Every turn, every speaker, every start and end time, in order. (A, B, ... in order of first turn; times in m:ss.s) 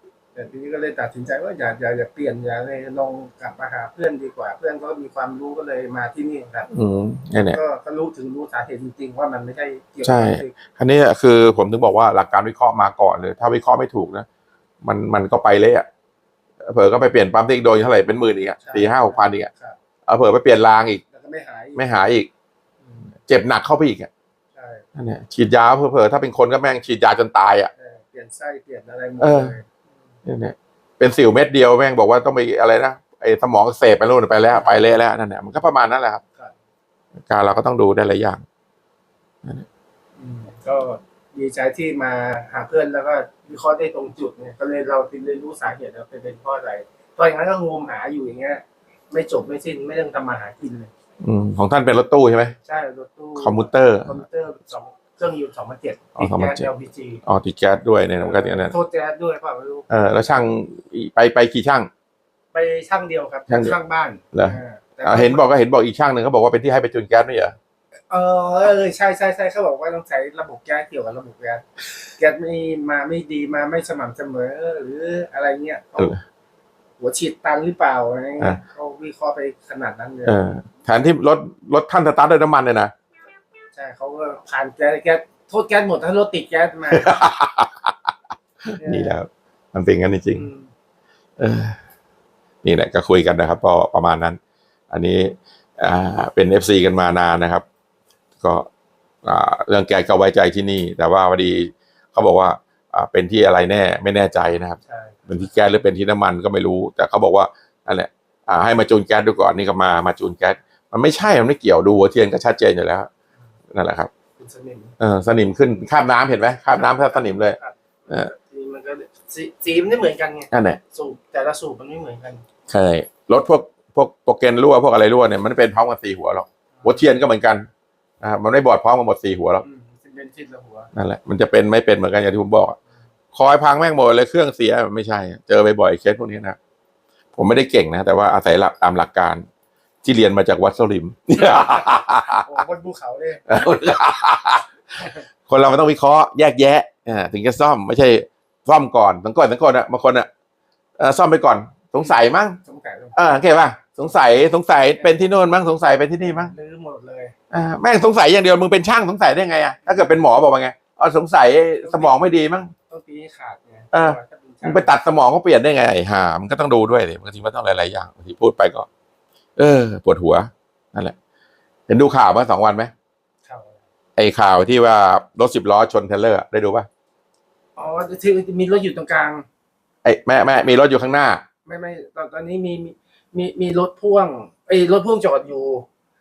0:00.4-0:06.7 A
0:06.7-0:07.6 B
0:07.5-0:10.6 A
0:10.0-0:14.3 B
0:14.8-0:15.9 B
0:16.6-0:19.5 B
0:18.6-0:19.8 A
0:20.1-0:21.0 B
0:21.1-0:21.8 A
0:21.8-0:22.3 B
0:22.8-0:23.1 A
0:23.3-0:24.1 B
0:24.6-0:24.9 A
0:25.0-0:27.7 B
0:27.8-0:29.8 A
0:29.2-0:29.5 B
0:30.3-0:36.2 B
0:37.3-0:38.4 B
0:40.2-0:50.9 A
0:51.2-0:52.5 B
0:52.6-0:57.2 A
0:53.4-0:54.2 B
0:56.2-0:56.7 B
0:57.2-0:58.7 B
0:58.2-1:00.0 A
0:59.9-1:01.9 B
1:02.5-1:05.4 A
1:03.5-1:03.8 B
1:04.3-1:07.6 B
1:08.1-1:16.2 A
1:17.0-1:20.4 A
1:20.2-1:22.9 B
1:23.7-1:27.2 A
1:26.9-1:28.1 B
1:28.7-1:30.5 B
1:28.8-1:29.2 A
1:30.3-1:30.7 A
1:31.4-1:31.8 B
1:32.6-1:34.4 B
1:34.9-1:37.6 B
1:38.4-1:38.7 B
1:39.2-1:53.1 B
1:44.9-1:45.5 A
1:53.7-1:54.1 B
1:54.4-1:55.0 A
1:55.0-1:57.6 B
1:56.7-2:02.5 A
2:00.5-2:00.8 B
2:02.7-2:07.7 B
2:06.8-2:07.0 A
2:08.2-2:09.6 B
2:09.6-2:10.9 A
2:10.9-2:12.8 B
2:13.3-2:16.6 B
2:17.4-2:19.4 B
2:20.0-2:22.5 B
2:22.4-2:23.4 A
2:23.5-2:24.7 B
2:25.5-2:30.3 B
2:31.0-2:32.6 B
2:32.0-2:33.4 A
2:33.2-2:36.5 B
2:36.2-2:37.4 A
2:37.5-2:42.7 B
2:41.8-2:42.2 A
2:42.9-2:44.9 A
2:43.9-2:48.9 B
2:49.6-2:51.2 B
2:51.9-2:52.9 B
2:53.5-2:53.8 A
2:54.2-2:56.9 B
2:57.8-2:59.5 A
3:00.0-3:01.4 B
3:01.7-3:05.9 A